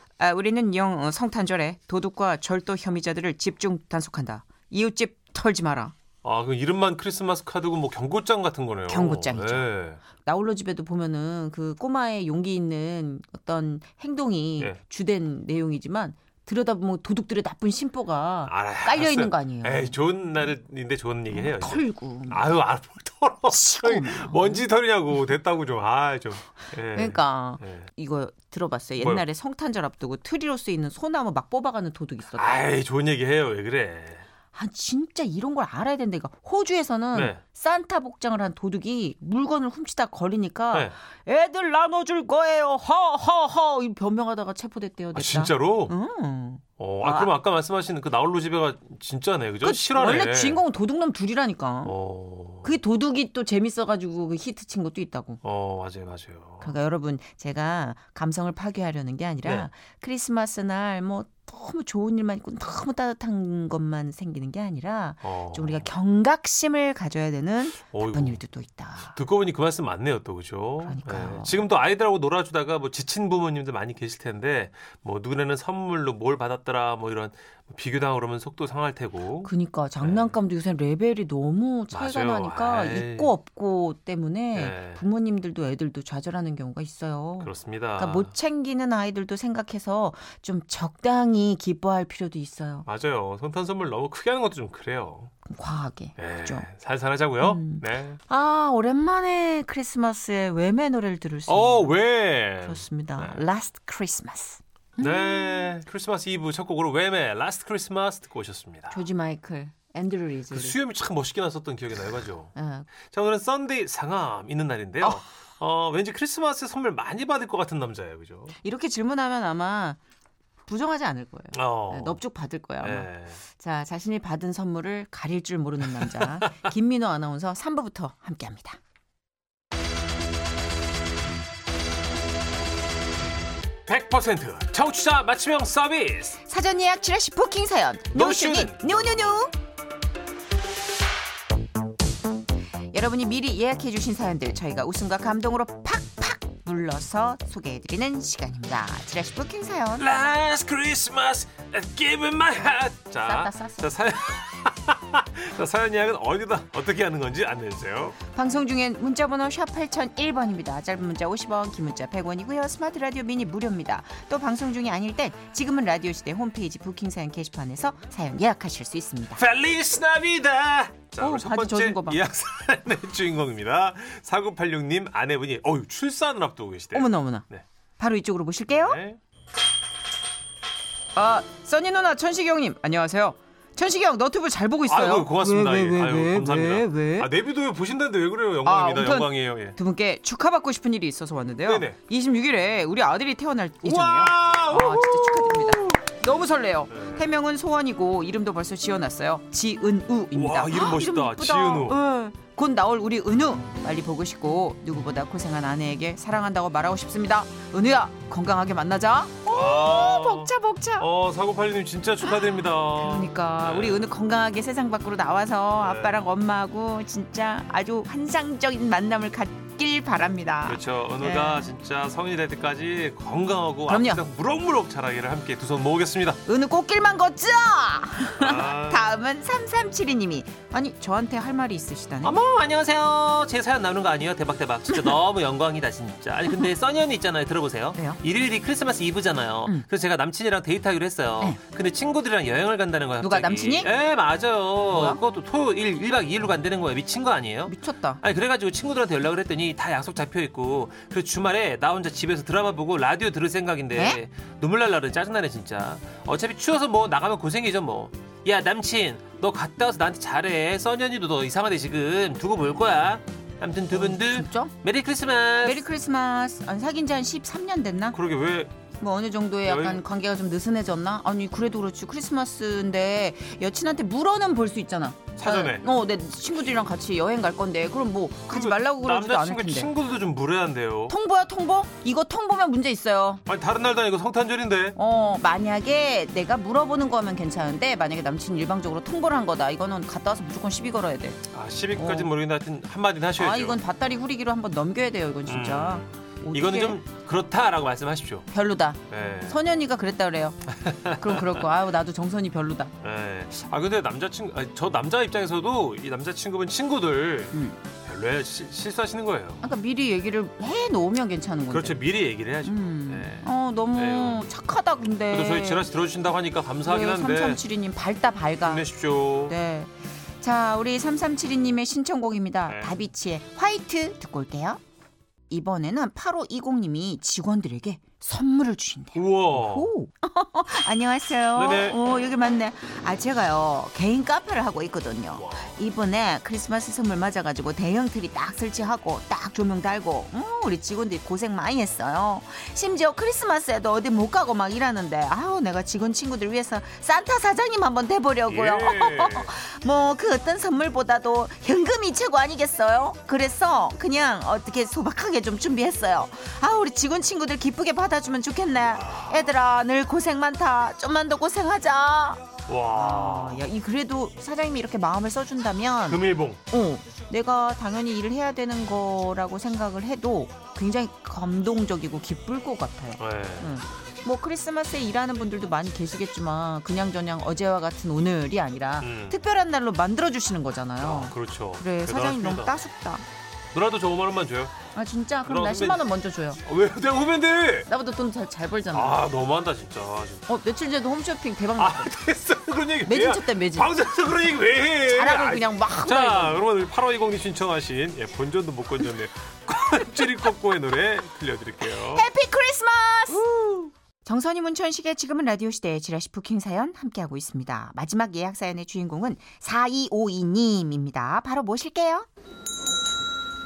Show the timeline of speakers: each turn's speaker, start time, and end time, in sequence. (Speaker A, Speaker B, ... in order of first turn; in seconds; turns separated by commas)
Speaker A: 0.2-5.9, Speaker B: 6.2-10.0, Speaker A: 8.9-20.0, Speaker B: 18.4-27.9, Speaker A: 21.3-22.5, Speaker A: 23.5-24.7, Speaker A: 26.9-32.6, Speaker B: 29.0-29.2, Speaker B: 32.3-34.2, Speaker A: 34.5-47.3, Speaker B: 37.1-37.4, Speaker B: 45.1-45.9, Speaker B: 46.8-50.6, Speaker A: 49.6-52.0, Speaker B: 51.8-52.8, Speaker A: 52.6-55.4, Speaker B: 55.4-56.7, Speaker A: 56.6-69.2, Speaker B: 59.4-59.7, Speaker B: 65.2-65.9, Speaker B: 67.9-68.4, Speaker B: 69.1-80.3, Speaker A: 70.8-71.6, Speaker A: 79.4-92.9, Speaker B: 81.9-83.3, Speaker B: 84.5-85.0, Speaker B: 87.4-88.3, Speaker B: 92.9-95.3, Speaker A: 95.5-96.7, Speaker B: 96.2-98.2, Speaker A: 97.4-102.0, Speaker B: 101.5-103.4, Speaker A: 102.6-105.7, Speaker B: 105.0-109.0, Speaker A: 108.9-110.8, Speaker B: 110.5-112.5, Speaker A: 112.6-112.9, Speaker B: 113.1-118.6, Speaker A: 118.6-120.0, Speaker A: 120.7-128.8, Speaker B: 121.5-122.2, Speaker B: 122.8-123.4, Speaker B: 126.0-126.4, Speaker B: 133.9-136.4, Speaker A: 136.4-139.5, Speaker B: 138.1-139.4, Speaker A: 142.9-150.1, Speaker B: 150.0-158.2, Speaker A: 153.2-153.8, Speaker A: 158.3-169.4, Speaker B: 169.4-177.6, Speaker A: 171.2-172.2, Speaker A: 176.9-177.5, Speaker A: 178.0-179.0, Speaker B: 178.7-179.2, Speaker A: 181.2-187.3, Speaker B: 184.9-189.8, Speaker A: 188.7-211.1, Speaker B: 191.7-192.0, Speaker B: 193.8-196.0, Speaker B: 196.9-197.3, Speaker B: 200.3-202.0, Speaker B: 209.5-214.1, Speaker A: 212.2-221.7, Speaker B: 215.8-216.3, Speaker B: 220.7-226.4, Speaker A: 223.9-224.2, Speaker A: 226.5-232.4, Speaker B: 228.4-229.1, Speaker B: 232.2-265.8, Speaker A: 234.9-235.2, Speaker A: 237.9-238.2, Speaker A: 243.2-243.9, Speaker A: 244.9-245.2, Speaker A: 247.7-248.2, Speaker A: 263.9-264.7, Speaker A: 265.6-268.2, Speaker B: 268.1-268.8, Speaker A: 269.0-279.9, Speaker B: 269.6-270.0, Speaker B: 275.4-275.9, Speaker B: 278.5-281.1, Speaker A: 281.1-283.4, Speaker B: 283.5-285.0, Speaker A: 285.0-291.4, Speaker B: 291.5-293.8, Speaker A: 292.0-292.3, Speaker A: 293.4-297.0, Speaker B: 295.5-298.5, Speaker A: 298.5-302.9, Speaker B: 299.1-299.6, Speaker B: 300.7-301.6, Speaker B: 303.0-309.7, Speaker A: 307.5-307.8, Speaker A: 309.6-312.0, Speaker B: 311.7-314.5, Speaker A: 312.6-315.9, Speaker B: 315.3-317.6, Speaker A: 316.9-318.8, Speaker B: 318.6-319.6, Speaker A: 319.5-324.8, Speaker B: 322.7-323.0, Speaker A: 325.5-383.2, Speaker B: 329.1-329.9, Speaker B: 331.6-332.0, Speaker B: 335.4-335.7, Speaker B: 348.5-349.6, Speaker B: 358.9-359.5, Speaker B: 362.7-363.7, Speaker B: 366.1-366.6, Speaker B: 373.2-373.8, Speaker B: 379.0-379.4, Speaker B: 381.0-382.8, Speaker B: 383.7-384.8, Speaker A: 384.9-386.6, Speaker B: 385.4-386.1, Speaker B: 386.6-387.9, Speaker A: 387.9-389.2, Speaker B: 388.9-390.4, Speaker A: 390.5-392.1, Speaker B: 391.8-402.3, Speaker A: 393.1-393.9, Speaker A: 395.0-396.6, Speaker A: 401.8-403.4, Speaker B: 403.3-403.9, Speaker A: 404.2-412.3